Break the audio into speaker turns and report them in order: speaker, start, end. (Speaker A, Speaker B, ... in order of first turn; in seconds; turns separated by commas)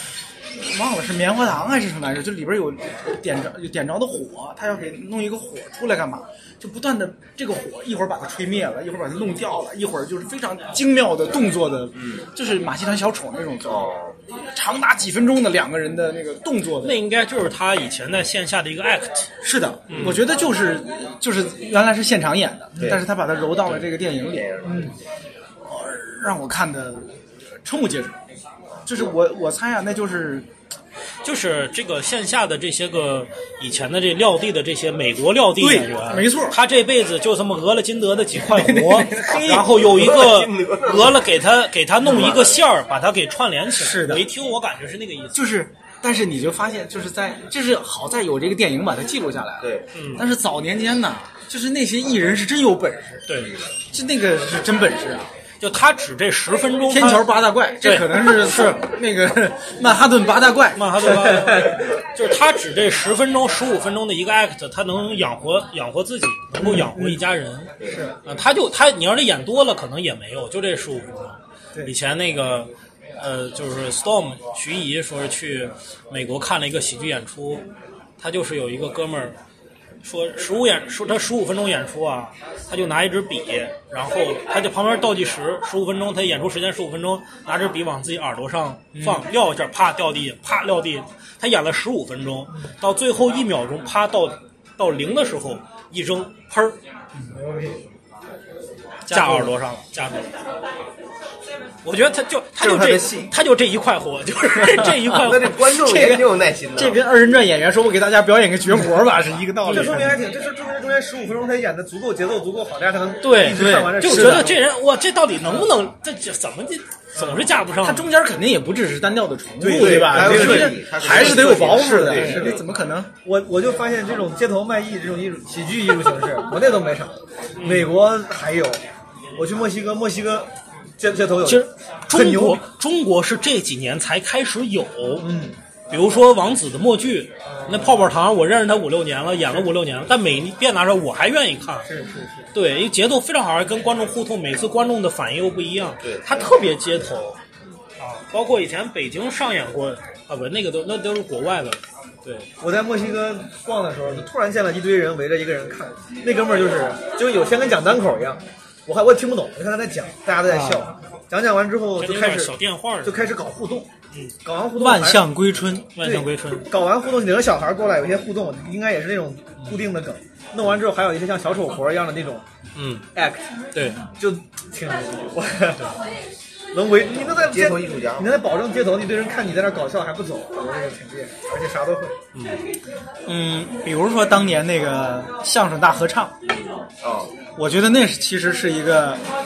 Speaker A: 0.6-17.0, Speaker B: 11.9-12.3, Speaker B: 13.6-14.1, Speaker C: 16.8-19.3, Speaker A: 19.4-24.7, Speaker C: 19.9-20.2, Speaker B: 19.9-20.2, Speaker B: 22.7-23.1, Speaker B: 24.2-24.9, Speaker D: 24.6-24.9, Speaker A: 25.6-27.1, Speaker A: 27.6-28.2, Speaker A: 28.9-30.5, Speaker C: 31.2-45.4, Speaker A: 35.6-36.6, Speaker A: 38.4-40.0, Speaker B: 39.4-41.2, Speaker B: 42.1-42.6, Speaker A: 43.7-44.3, Speaker A: 45.3-55.3, Speaker B: 49.6-49.9, Speaker C: 49.9-50.2, Speaker C: 53.3-53.5, Speaker C: 55.6-58.8, Speaker A: 56.9-61.3, Speaker C: 60.7-67.7, Speaker D: 66.9-67.2, Speaker B: 67.8-68.0, Speaker D: 67.8-68.1, Speaker C: 68.2-77.6, Speaker C: 78.2-79.3, Speaker C: 80.0-96.8, Speaker A: 88.9-89.2, Speaker D: 97.3-97.8, Speaker C: 99.1-100.2, Speaker A: 99.1-99.5, Speaker C: 101.8-105.6, Speaker B: 102.6-103.3, Speaker B: 105.0-107.0, Speaker A: 105.7-110.2, Speaker D: 109.6-114.6, Speaker C: 109.7-110.0, Speaker C: 113.2-118.1, Speaker A: 113.4-114.5, Speaker D: 117.2-117.4, Speaker A: 117.8-123.1, Speaker D: 119.6-122.6, Speaker B: 119.7-122.6, Speaker D: 123.2-128.8, Speaker C: 127.6-127.9, Speaker D: 129.3-132.6, Speaker C: 131.4-135.3, Speaker D: 135.2-135.6, Speaker C: 135.9-141.9, Speaker D: 137.4-138.0, Speaker D: 141.8-142.4, Speaker C: 142.5-147.4, Speaker B: 146.0-146.5, Speaker C: 148.0-152.5, Speaker D: 152.6-163.9, Speaker A: 160.5-160.9, Speaker C: 162.0-163.1, Speaker D: 164.4-165.2, Speaker A: 164.7-165.9, Speaker C: 165.9-166.7, Speaker D: 166.0-172.4, Speaker C: 172.8-173.1, Speaker D: 173.1-173.5, Speaker C: 173.7-174.1, Speaker D: 174.2-175.9, Speaker D: 176.7-182.1, Speaker B: 177.1-178.4, Speaker C: 182.3-182.6, Speaker A: 183.2-186.3, Speaker B: 186.4-187.3, Speaker A: 187.6-189.2